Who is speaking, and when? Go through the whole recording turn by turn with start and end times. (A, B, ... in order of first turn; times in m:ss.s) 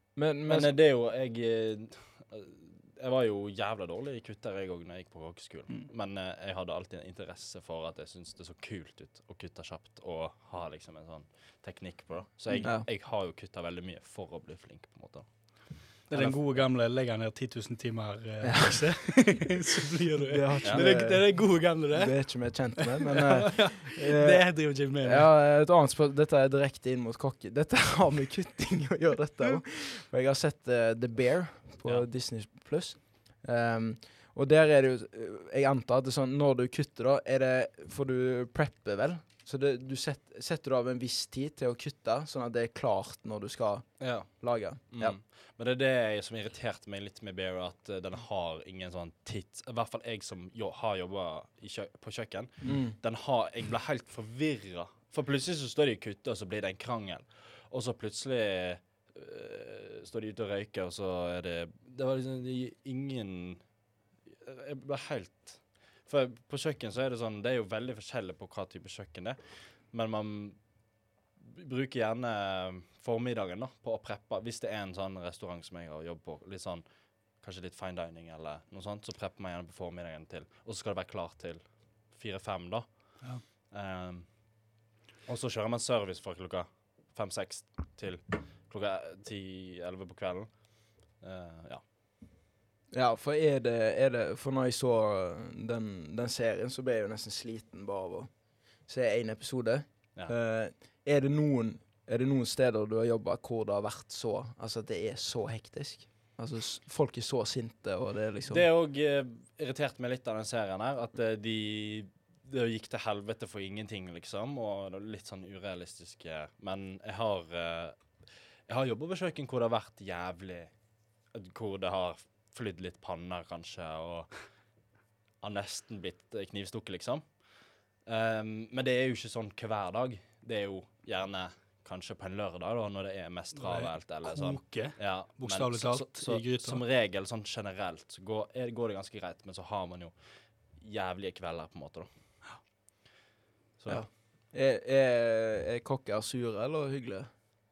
0:00.2-0:00.8 A
0:00.5-0:15.3 B
0:16.1-0:16.6 B
0:16.1-0:22.2 C
0:18.4-0:19.0 A
0:20.2-0:45.2 A
0:22.8-0:25.3 C
0:44.0-0:44.3 B
0:44.9-1:03.6 B
0:52.6-0:53.0 A
1:04.4-1:09.4 B
1:09.9-1:10.6 B
1:11.4-1:16.8 B
1:17.4-1:21.6 B
1:22.1-1:22.9 B
1:23.7-1:24.2 B
1:25.3-1:30.5 B
1:31.2-1:31.8 B
1:32.9-1:38.3 A
1:38.9-1:48.6 A
1:48.5-1:58.0 B
1:58.7-2:00.7 B
2:01.3-2:04.3 B
2:05.4-2:07.2 B
2:08.1-2:20.1 B
2:13.6-2:16.8 C
2:20.8-2:22.1 B
2:23.9-2:27.3 A